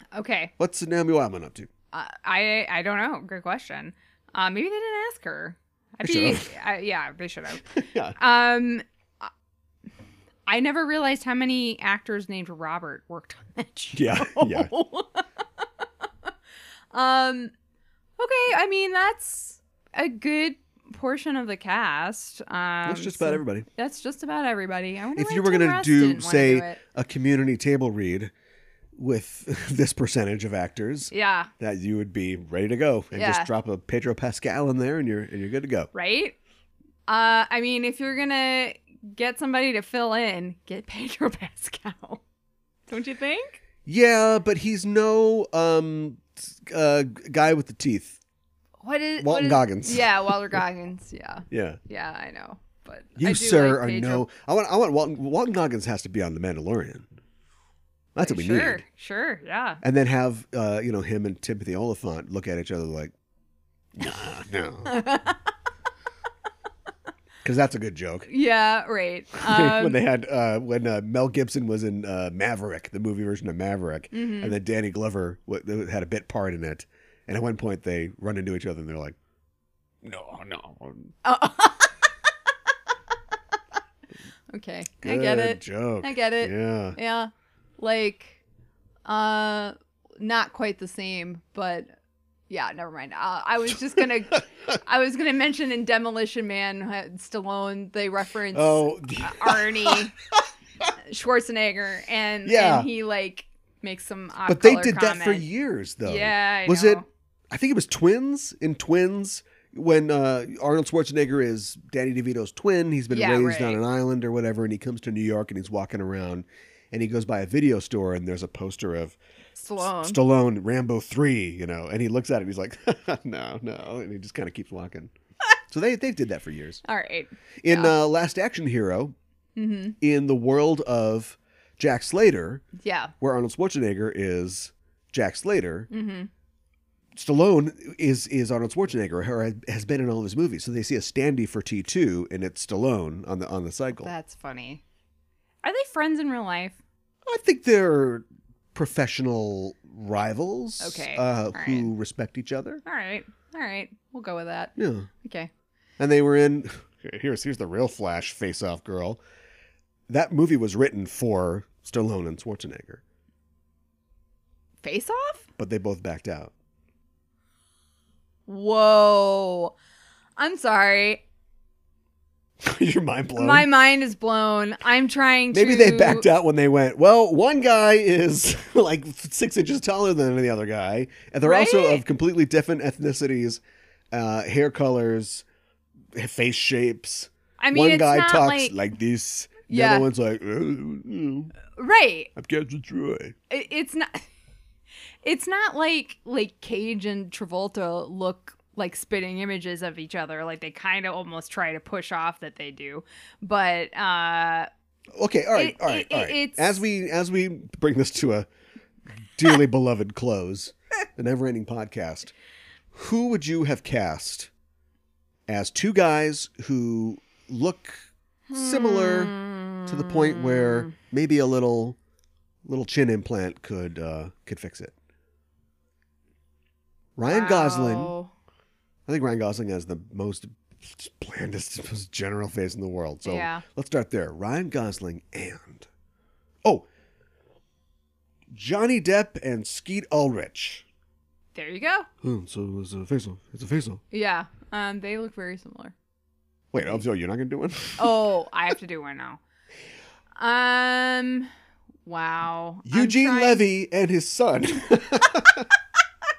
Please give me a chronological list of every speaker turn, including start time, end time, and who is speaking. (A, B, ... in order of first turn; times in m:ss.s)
0:00.1-0:00.5 A
0:00.6-0:01.7 B
0:01.9-0:09.3 A
0:06.0-0:06.5 B
0:07.7-0:08.2 B
0:10.5-0:16.1 A
0:14.0-0:14.7 B
0:16.9-0:17.5 A
0:18.2-0:26.8 A
0:22.8-0:23.7 B
0:25.2-0:28.3 B
0:29.0-0:35.9 B
0:31.1-0:31.5 A
0:33.1-0:33.5 A
0:35.9-0:36.4 A
0:37.1-0:42.2 A
0:42.9-0:43.6 A
0:43.9-0:48.2 B
0:48.8-0:54.3 A
0:49.2-0:50.6 B
0:51.5-0:51.8 B
0:53.2-0:57.1 B
0:58.1-0:58.8 B
0:58.2-0:59.8 A
0:59.8-1:03.1 B
1:03.9-1:05.0 B
1:04.9-1:05.4 A
1:07.4-1:08.3 B
1:08.3-1:10.0 A
1:09.4-1:19.2 B
1:14.1-1:14.6 A
1:20.0-1:21.1 B
1:21.2-1:22.1 A
1:24.5-1:28.4 A
1:25.0-1:27.0 B
1:29.0-1:31.9 A
1:32.5-1:40.1 A
1:38.5-1:40.1 B
1:41.1-1:45.5 A
1:42.4-1:42.9 B
1:44.5-1:59.2 B
1:46.0-1:47.1 A
1:53.1-1:53.8 A
1:59.6-2:00.2 A
1:59.8-2:05.1 B
2:05.7-2:06.8 B
2:06.8-2:08.0 A
2:07.6-2:09.2 B
2:09.6-2:10.0 A
2:10.0-2:12.6 B
2:12.8-2:13.1 A
2:13.2-2:15.9 B
2:15.9-2:16.3 A
2:17.2-2:24.1 B
2:24.0-2:24.8 A
2:25.6-2:26.8 A
2:27.2-2:32.8 B
2:30.8-2:31.9 A
2:32.8-2:35.5 A
2:34.8-2:35.1 B
2:36.0-2:39.2 B
2:40.1-2:43.0 B
2:44.8-2:45.5 A
2:45.6-2:46.5 B
2:48.5-2:49.8 A
2:50.4-2:51.2 A
2:52.6-2:53.7 B
2:53.4-2:56.3 A
2:55.5-3:03.6 B
3:01.4-3:02.0 A
3:04.1-3:05.4 B
3:06.2-3:11.6 B
3:07.6-3:08.8 A
3:09.7-3:10.1 A
3:11.7-3:12.3 A
3:12.4-3:13.4 B
3:13.5-3:14.3 A
3:15.2-3:24.7 A
3:25.2-3:28.5 B
3:25.6-3:26.8 A
3:29.4-3:32.3 B
3:32.9-3:34.5 B
3:35.5-3:39.4 B
3:38.5-3:41.0 A
3:39.9-3:42.0 B
3:42.6-3:45.0 B
3:47.2-3:48.1 B
3:47.3-3:48.3 A
3:49.1-3:55.9 B
3:53.2-3:53.6 A
3:58.5-4:00.8 B
4:01.5-4:02.1 A
4:02.2-4:04.0 B
4:04.1-4:06.0 A
4:06.7-4:08.3 B
4:08.0-4:09.4 A
4:10.4-4:11.5 A
4:12.1-4:13.6 A
4:12.8-4:15.7 B